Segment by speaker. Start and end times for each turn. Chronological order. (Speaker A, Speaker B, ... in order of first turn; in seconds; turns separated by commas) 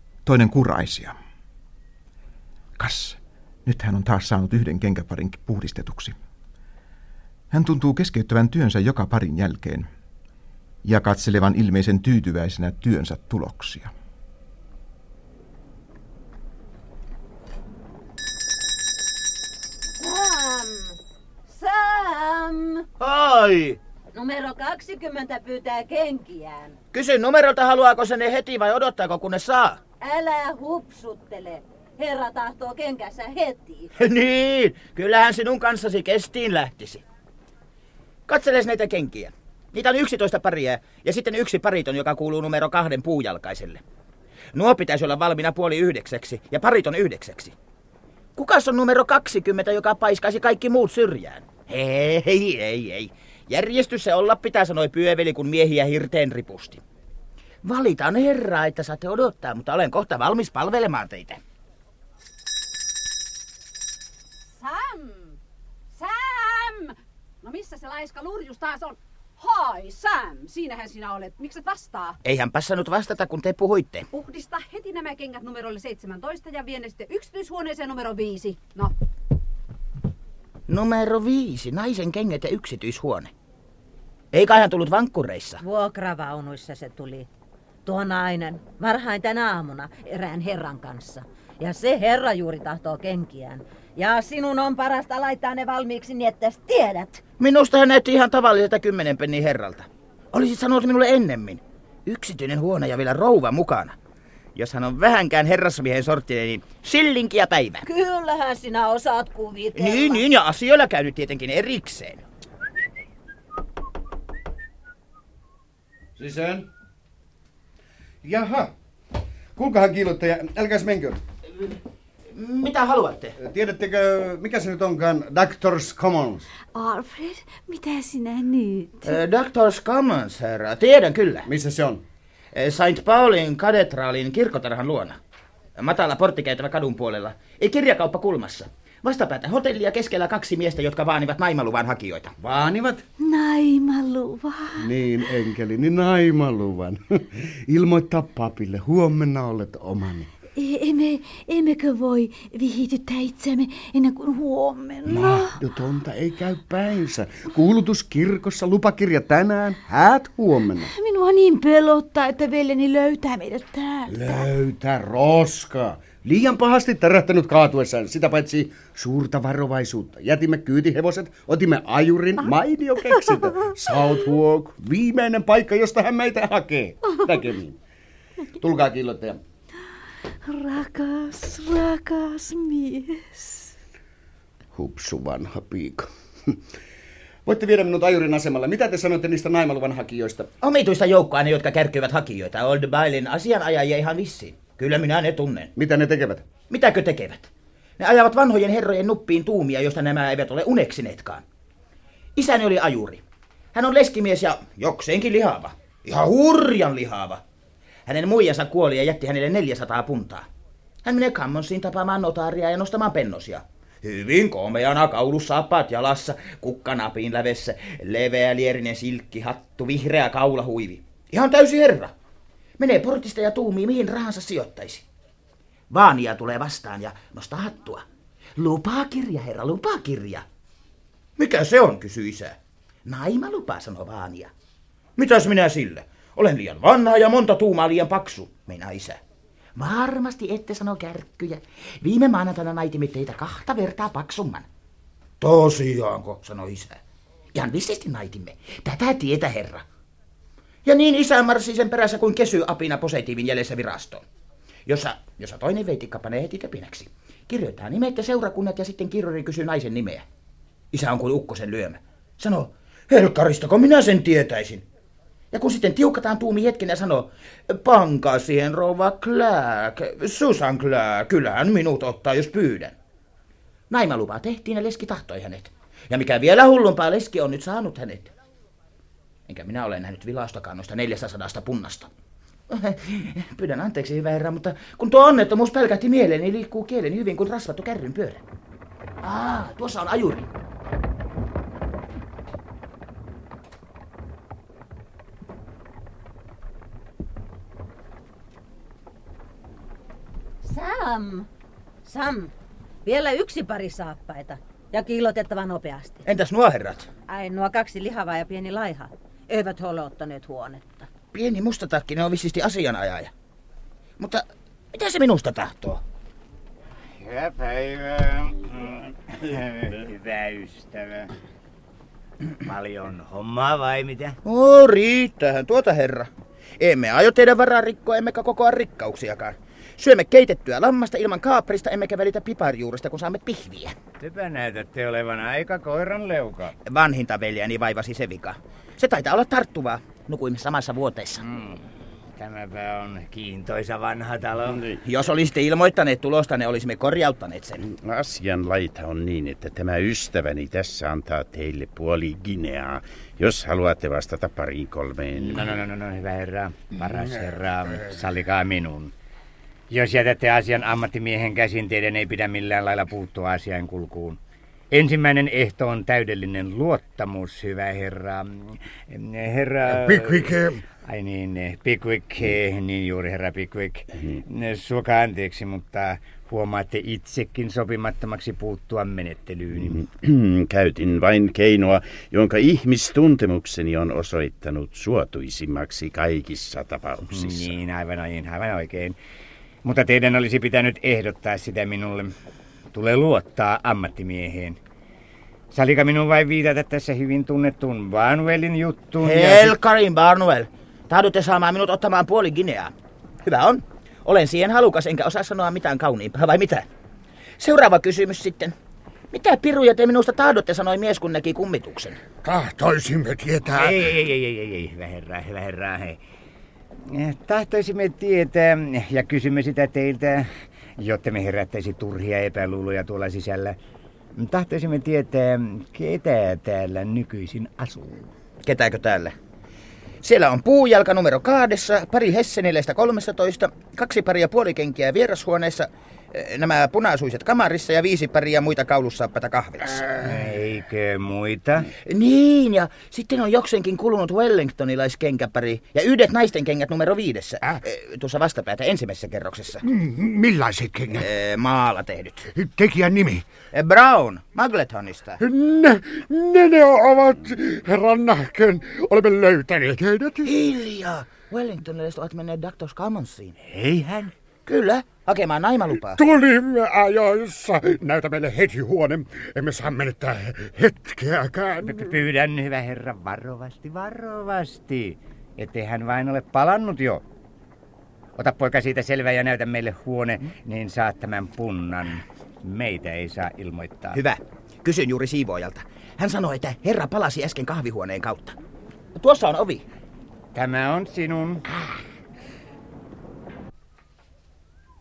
Speaker A: 0.2-1.2, Speaker A: 2.8-6.2, Speaker A: 7.5-9.9, Speaker A: 10.8-13.9, Speaker B: 19.9-22.9, Speaker C: 23.0-23.8, Speaker B: 24.1-26.8, Speaker C: 26.9-29.8, Speaker B: 30.0-33.9, Speaker C: 34.0-37.0, Speaker C: 38.3-43.8, Speaker C: 44.5-47.5, Speaker C: 48.4-56.8, Speaker C: 57.6-61.4, Speaker D: 64.5-65.4, Speaker D: 66.0-72.2, Speaker C: 72.2-74.1, Speaker D: 74.1-78.9, Speaker C: 80.7-83.3, Speaker C: 84.3-85.6, Speaker B: 85.6-87.3, Speaker B: 87.8-97.2, Speaker C: 97.4-104.0, Speaker C: 104.5-107.8, Speaker B: 107.8-110.2, Speaker C: 109.8-112.2, Speaker E: 116.2-116.7, Speaker E: 118.2-118.7, Speaker E: 119.6-121.2, Speaker C: 122.3-123.3, Speaker E: 123.4-126.5, Speaker F: 126.7-129.2, Speaker C: 129.0-131.5, Speaker E: 131.5-132.0, Speaker C: 132.5-135.2, Speaker C: 135.8-142.3, Speaker E: 142.4-143.0, Speaker F: 143.2-145.3, Speaker E: 144.8-150.3, Speaker F: 150.6-155.6, Speaker E: 155.1-160.9, Speaker F: 160.9-164.2, Speaker E: 164.1-177.7, Speaker E: 178.6-179.4, Speaker F: 180.4-183.7, Speaker E: 184.8-186.6, Speaker E: 187.5-190.5, Speaker C: 190.6-195.7, Speaker E: 195.8-196.5, Speaker C: 196.7-201.4, Speaker C: 202.4-203.2, Speaker C: 203.7-207.4, Speaker C: 208.1-210.5, Speaker C: 211.0-222.1, Speaker C: 222.8-225.1, Speaker C: 225.9-228.1, Speaker C: 228.6-230.4, Speaker C: 231.4-234.5, Speaker C: 235.2-239.2, Speaker C: 239.8-244.7, Speaker C: 245.4-247.0, Speaker C: 247.5-249.8, Speaker C: 250.8-254.2, Speaker C: 254.9-260.3, Speaker C: 260.9-264.9, Speaker C: 265.5-272.9, Speaker C: 273.9-278.3, Speaker C: 279.5-282.1, Speaker C: 282.7-288.4, Speaker C: 289.2-290.5, Speaker B: 300.6-301.5, Speaker B: 302.1-302.5, Speaker B: 303.1-306.2, Speaker C: 306.3-307.1, Speaker B: 307.3-311.1, Speaker C: 311.3-313.3, Speaker C: 314.2-316.0, Speaker G: 317.2-321.3, Speaker G: 322.6-324.4, Speaker C: 324.4-334.0, Speaker G: 334.2-336.7, Speaker C: 336.9-341.4, Speaker G: 341.4-341.9, Speaker G: 342.4-344.8, Speaker H: 344.7-345.0, Speaker C: 345.1-347.8, Speaker H: 347.9-355.8, Speaker G: 355.3-359.1, Speaker G: 359.9-364.4, Speaker G: 364.9-370.5, Speaker I: 369.9-370.8, Speaker G: 371.0-380.0, Speaker H: 379.8-387.8, Speaker G: 387.3-389.2, Speaker G: 389.8-392.4, Speaker G: 392.9-394.8, Speaker G: 395.7-399.8, Speaker C: 399.2-402.9, Speaker C: 403.4-406.9, Speaker C: 407.6-408.8, Speaker C: 409.3-412.2, Speaker I: 412.4-414.1, Speaker G: 413.7-416.2, Speaker G: 417.1-423.8, Speaker G: 424.3-428.3, Speaker C: 428.6-429.4, Speaker C: 430.2-440.1, Speaker G: 440.2-441.9, Speaker C: 442.1-449.8, Speaker I: 449.8-451.3, Speaker C: 451.2-452.5, Speaker I: 452.6-453.5, Speaker C: 453.7-455.4, Speaker I: 455.4-460.5, Speaker C: 460.4-463.6, Speaker G: 463.6-464.3, Speaker C: 464.7-466.2, Speaker I: 466.1-472.1, Speaker G: 471.8-477.2, Speaker G: 478.4-484.2, Speaker C: 484.1-488.6, Speaker C: 489.2-489.8, Speaker G: 490.5-491.6